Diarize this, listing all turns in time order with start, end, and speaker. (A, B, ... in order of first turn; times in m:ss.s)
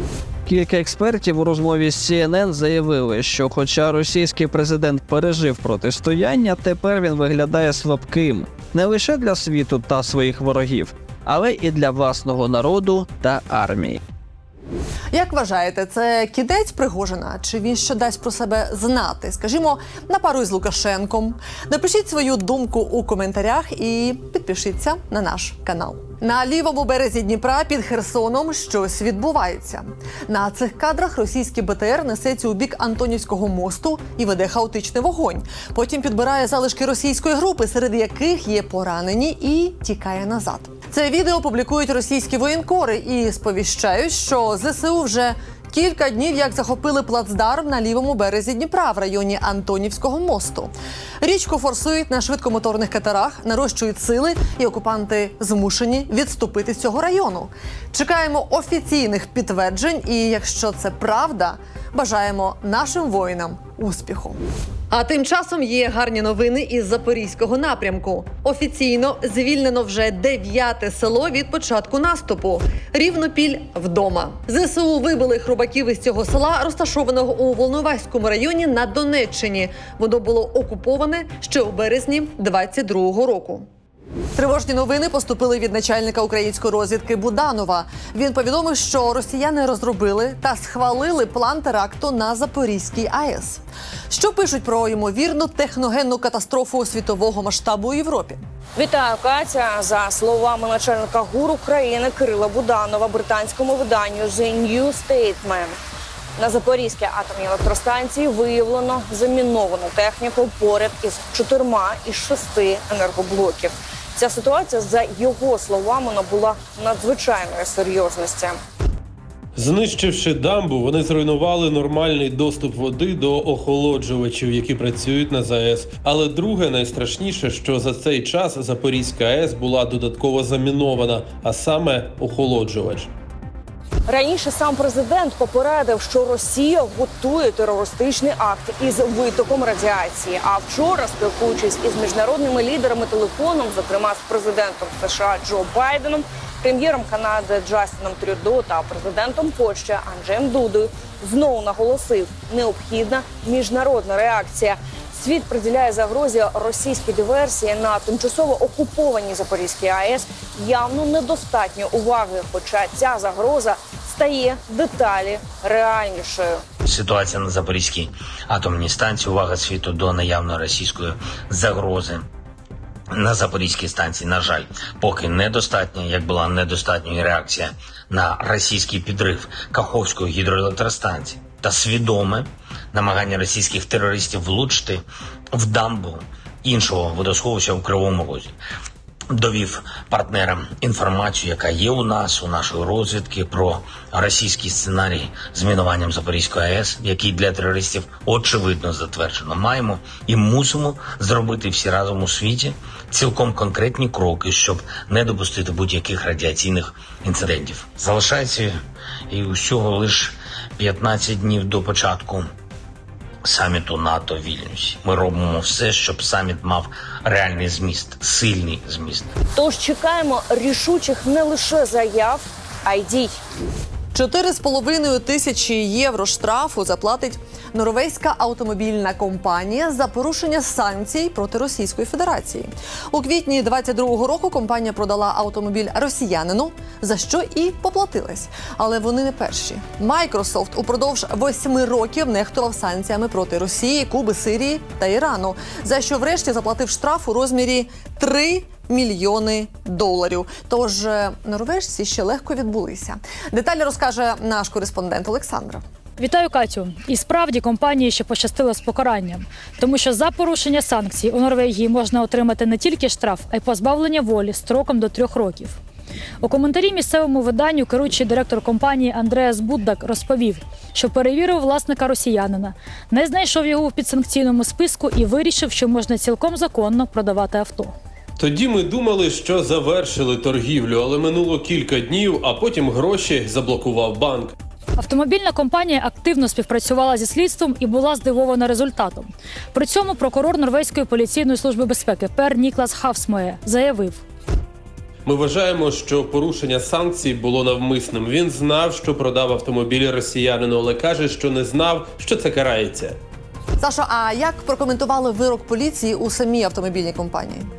0:00.4-0:14.0 A
0:15.1-1:04.4 B
1:04.9-1:23.6 B
1:24.4-1:38.4 B
1:38.8-1:45.7 C
1:46.4-1:58.5 C
1:59.6-2:13.1 D
2:14.1-2:46.4 C
2:46.8-2:52.2 E
2:53.1-3:08.5 E
3:09.3-3:28.8 E
3:29.3-3:32.5 E
3:33.4-3:39.3 E
3:39.6-3:42.3 C
3:42.9-3:43.2 C
3:44.1-4:15.8 B
4:16.2-4:25.8 F
4:26.4-4:37.9 F
4:38.4-4:44.6 D
4:45.0-4:54.2 F
4:55.2-5:03.2 D
5:03.8-5:07.7 B